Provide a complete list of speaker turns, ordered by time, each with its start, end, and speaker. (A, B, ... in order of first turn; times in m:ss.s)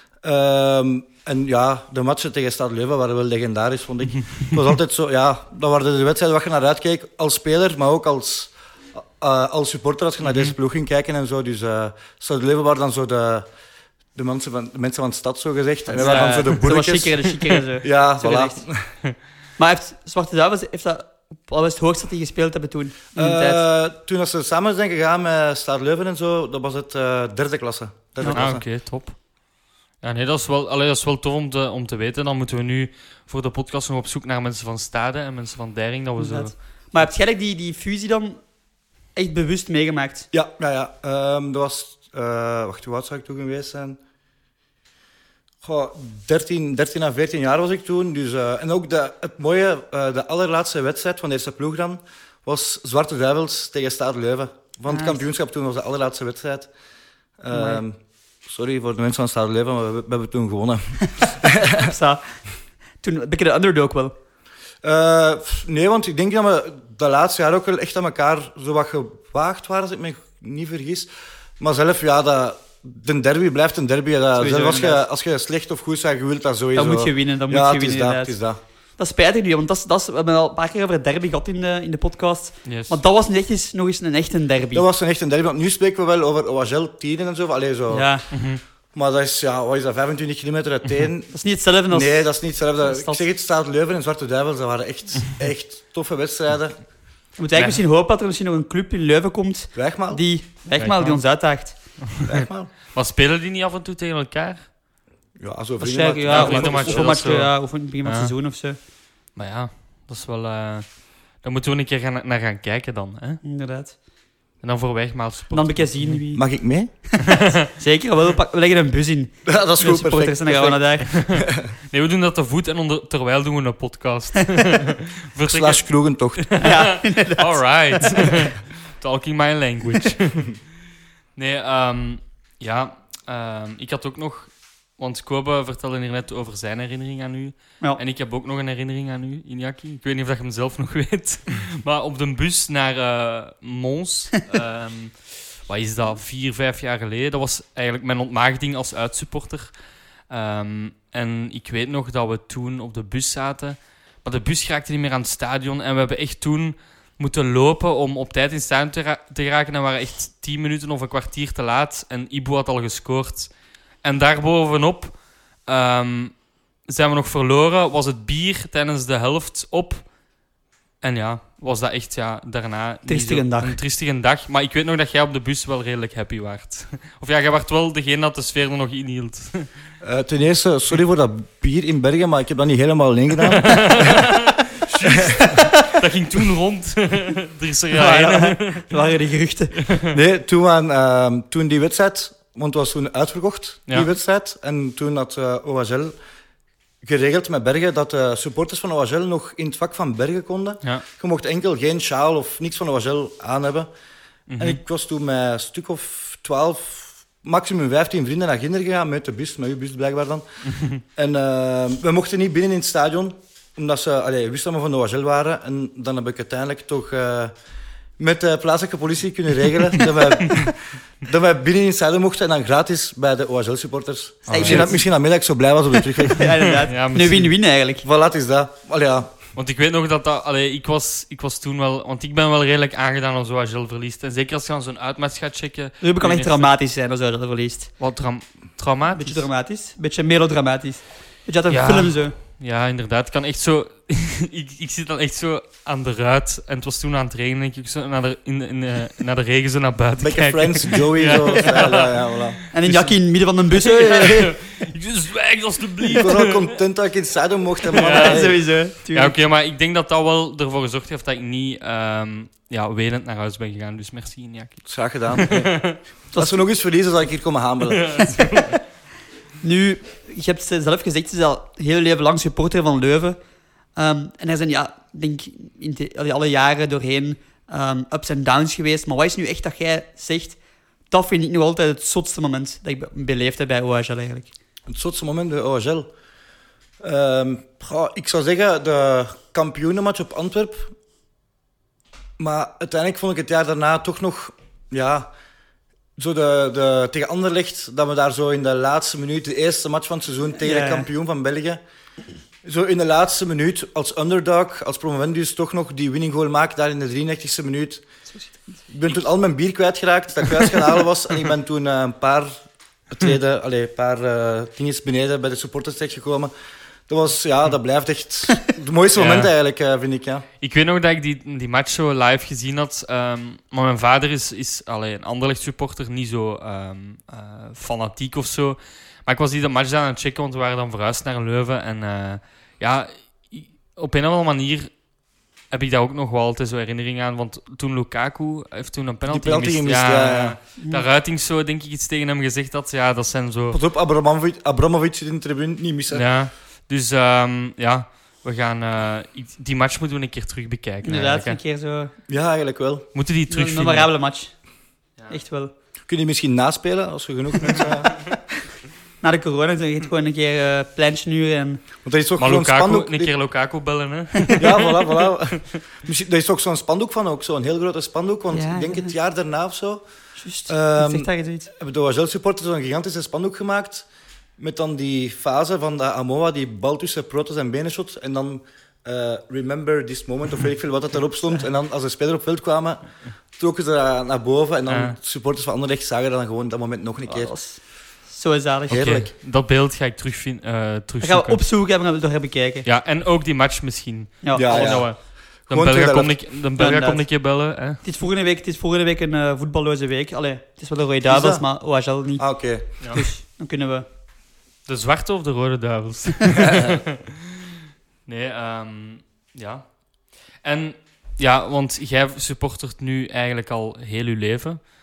0:00.2-0:13.5 A
0:10.3-0:10.5 B
0:14.2-0:17.2 A
0:15.9-0:18.6 C
0:16.0-0:16.6 B
0:17.8-0:18.9 A
0:19.6-0:23.6 C
0:23.2-0:28.6 A
0:28.3-0:29.2 B
0:30.0-0:36.5 B
0:36.2-0:38.4 C
0:39.2-0:40.3 C
0:40.3-0:44.0 A
0:45.6-0:56.7 A
0:54.9-0:55.2 C
0:57.4-0:58.0 A
0:57.5-0:57.8 C
0:58.5-1:01.9 A
1:01.8-1:02.2 C
1:03.0-1:04.1 C
1:04.8-1:18.6 A
1:14.4-1:15.0 C
1:16.8-1:18.4 C
1:19.0-1:24.8 C
1:22.6-1:23.0 B
1:24.7-1:28.1 A
1:27.9-1:28.3 C
1:28.3-1:28.6 B
1:28.9-1:31.3 A
1:31.3-1:32.2 C
1:31.9-1:36.8 A
1:32.8-1:33.2 C
1:37.4-1:41.8 C
1:39.8-1:40.2 A
1:40.8-1:41.2 B
1:42.1-1:44.7 B
1:42.2-1:42.7 A
1:45.4-1:47.3 A
1:45.8-1:48.8 C
1:46.3-1:47.5 B
1:48.0-1:48.3 B
1:49.4-1:50.9 B
1:51.4-1:53.4 B
1:53.4-1:54.0 C
1:54.6-1:56.2 B
1:55.5-1:56.4 C
1:56.3-1:56.9 A
1:57.1-2:01.1 C
1:57.2-1:57.7 B
1:59.4-2:01.7 A
2:01.1-2:05.8 B
2:05.4-2:06.5 A
2:06.4-2:10.6 B
2:06.6-2:08.2 C
2:11.4-2:29.7 B
2:30.3-2:43.5 B
2:44.0-2:45.2 B
2:45.7-2:46.3 B
2:46.9-2:50.0 B
2:51.0-2:59.7 B
2:53.1-2:53.8 C
3:00.0-3:04.3 A
3:03.4-3:08.9 B
3:05.0-3:05.7 A
3:07.9-3:09.8 C
3:09.9-3:10.2 B
3:10.1-3:16.1 A
3:17.0-3:23.9 A
3:24.5-3:24.8 B
3:24.6-3:30.4 A
3:30.7-3:31.0 B
3:31.2-3:37.5 A
3:38.2-3:46.5 A
3:44.5-3:44.9 B
3:44.5-3:45.0 C
3:46.3-3:48.0 C
3:46.6-3:47.5 B
3:48.0-3:49.3 A
3:49.6-3:56.7 B
3:56.0-3:57.9 C
3:58.0-3:59.5 B
3:59.1-4:02.3 C
4:01.7-4:12.2 B
4:10.2-4:12.6 A
4:12.7-4:14.6 C
4:12.9-4:13.1 B
4:13.7-4:16.7 B
4:16.2-4:18.6 A
4:17.9-4:18.6 B
4:18.0-4:19.4 C
4:19.1-4:26.0 B
4:24.9-4:25.8 A
4:26.3-4:26.6 C
4:26.4-4:28.2 A
4:27.8-4:28.8 B
4:28.4-4:28.7 C
4:29.6-4:33.4 C
4:34.0-4:40.6 C
4:41.1-4:44.5 C
4:44.9-4:46.1 A
4:47.0-4:50.9 A
4:52.4-4:55.3 A
4:56.2-5:01.8 A
5:00.6-5:01.1 C
5:02.6-5:08.0 A
5:08.9-5:12.5 A
5:13.1-5:16.5 A
5:17.1-5:20.4 A
5:19.2-5:19.5 B
5:20.6-5:34.9 B
5:35.7-5:43.8 B
5:39.3-5:40.6 A
5:40.8-5:41.0 C
5:43.7-5:46.2 A
5:46.1-5:51.6 B
5:51.0-5:52.1 C
5:52.3-5:53.1 A
5:53.2-5:54.1 B
5:53.5-5:54.5 C
5:55.3-5:55.7 C
5:56.1-5:58.2 A
5:59.2-6:01.8 C
6:02.0-6:03.3 A
6:02.4-6:05.6 B
6:04.6-6:10.0 A
6:08.5-6:09.1 C
6:10.4-6:11.7 C
6:10.7-6:14.1 A
6:14.6-6:23.0 A
6:23.6-6:27.5 A
6:24.9-6:25.2 B
6:27.3-6:29.1 C
6:28.9-6:29.3 A
6:28.9-6:31.6 B
6:31.2-6:32.9 C
6:32.8-6:35.2 B
6:34.4-6:35.0 C
6:34.6-6:35.1 A
6:35.7-6:36.4 A
6:35.7-6:38.0 B
6:36.8-6:37.2 C
6:38.0-6:42.4 C
6:41.3-6:41.6 A
6:42.4-6:42.9 A
6:43.0-6:43.3 B
6:43.1-6:44.1 C
6:44.9-6:47.7 B
6:46.6-6:47.0 A
6:48.3-6:49.9 B
6:50.6-6:54.8 B